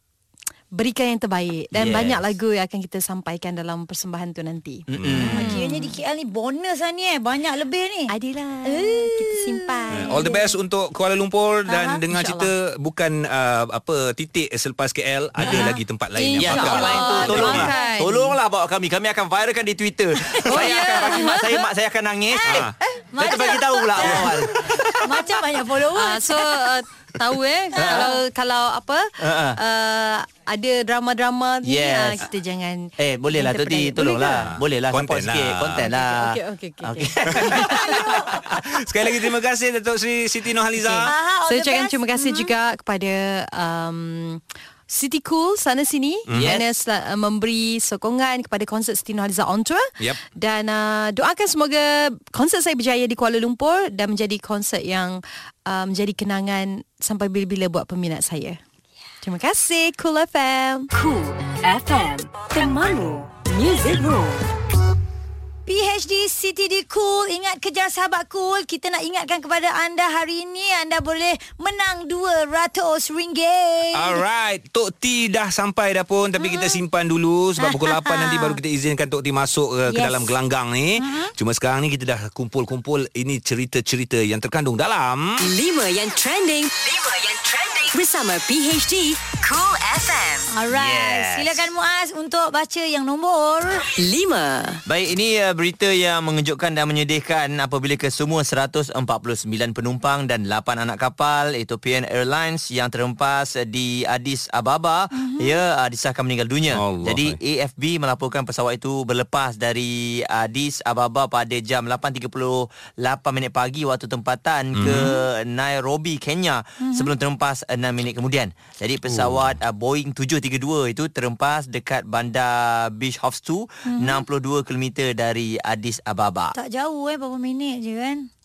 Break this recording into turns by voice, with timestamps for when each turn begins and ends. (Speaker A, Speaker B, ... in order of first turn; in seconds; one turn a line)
Speaker A: 0.7-6.0
Speaker B: 1.7-2.2
Speaker B: 4.9-5.6
Speaker C: 5.0-5.5
Speaker D: 5.2-8.1
Speaker A: 8.1-10.4
Speaker D: 8.7-10.3
Speaker C: 9.9-17.7
Speaker D: 11.7-12.0
Speaker A: 12.1-12.5
Speaker B: 15.4-15.7
Speaker A: 15.4-18.4
Speaker B: 16.4-24.9
Speaker D: 16.8-17.9
Speaker A: 20.5-21.6
Speaker D: 22.3-24.4
Speaker C: 22.5-22.7
Speaker D: 25.0-26.5
Speaker A: 25.9-34.5
Speaker B: 27.8-28.1
Speaker D: 27.8-28.1
Speaker B: 29.2-29.6
Speaker B: 31.6-32.2
Speaker B: 33.0-38.2
Speaker C: 34.5-35.9
Speaker A: 35.8-38.2
Speaker C: 37.4-37.7
Speaker D: 37.5-38.2
Speaker C: 38.5-41.1
Speaker D: 41.1-42.5
Speaker A: 41.5-58.6
Speaker C: 46.3-46.6
Speaker B: 46.3-46.6
Speaker A: 59.2-60.9
Speaker E: 60.9-64.5
Speaker D: 65.7-74.2
Speaker C: 73.9-85.4
Speaker D: 76.4-76.8
Speaker D: 77.6-78.6
Speaker D: 79.9-80.3
Speaker D: 81.0-81.3
Speaker E: 85.4-90.5
Speaker D: 90.5-93.9
Speaker B: 90.7-91.7
Speaker E: 93.9-94.8
Speaker B: 94.9-126.5
Speaker C: 106.7-107.4
Speaker C: 114.8-115.1
Speaker D: 116.8-117.1
Speaker C: 119.1-119.3
Speaker D: 123.9-124.2
Speaker D: 126.5-128.3